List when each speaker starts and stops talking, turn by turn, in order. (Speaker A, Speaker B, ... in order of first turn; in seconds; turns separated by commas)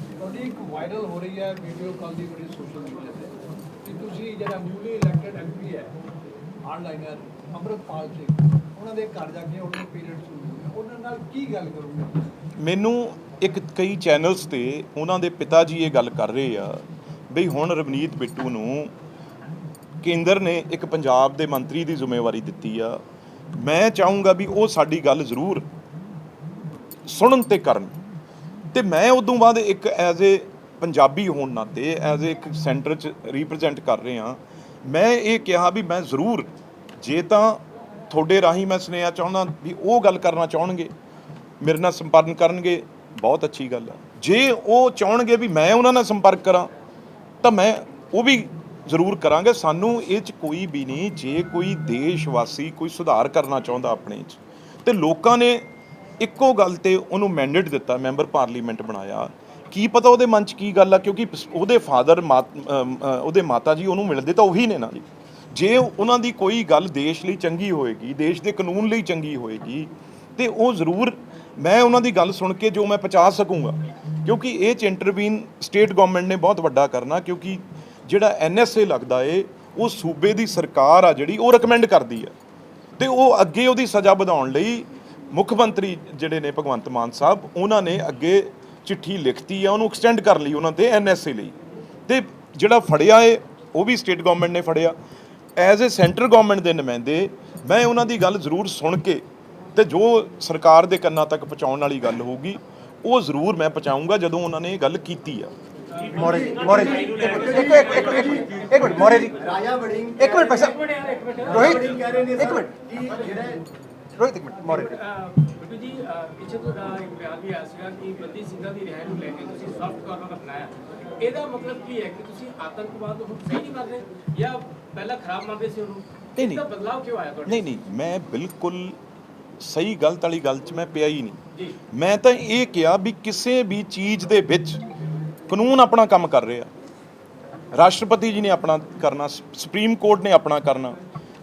Speaker A: 0.2-5.9, Speaker A: 6.6-12.3, Speaker B: 12.6-18.9, Speaker B: 20.0-23.0, Speaker B: 23.5-25.6, Speaker B: 27.1-27.9, Speaker B: 28.7-40.9, Speaker B: 41.6-46.7, Speaker B: 47.4-55.6, Speaker B: 56.2-82.3, Speaker B: 83.0-91.5, Speaker B: 92.1-94.9, Speaker B: 95.6-99.2, Speaker B: 99.7-105.5, Speaker C: 105.9-113.5, Speaker D: 106.1-110.8, Speaker D: 111.5-113.6, Speaker D: 114.2-115.0, Speaker C: 114.6-127.7, Speaker B: 126.4-126.7, Speaker B: 127.5-129.0, Speaker B: 129.6-131.4, Speaker B: 131.9-134.8, Speaker B: 135.5-136.7, Speaker B: 137.7-141.0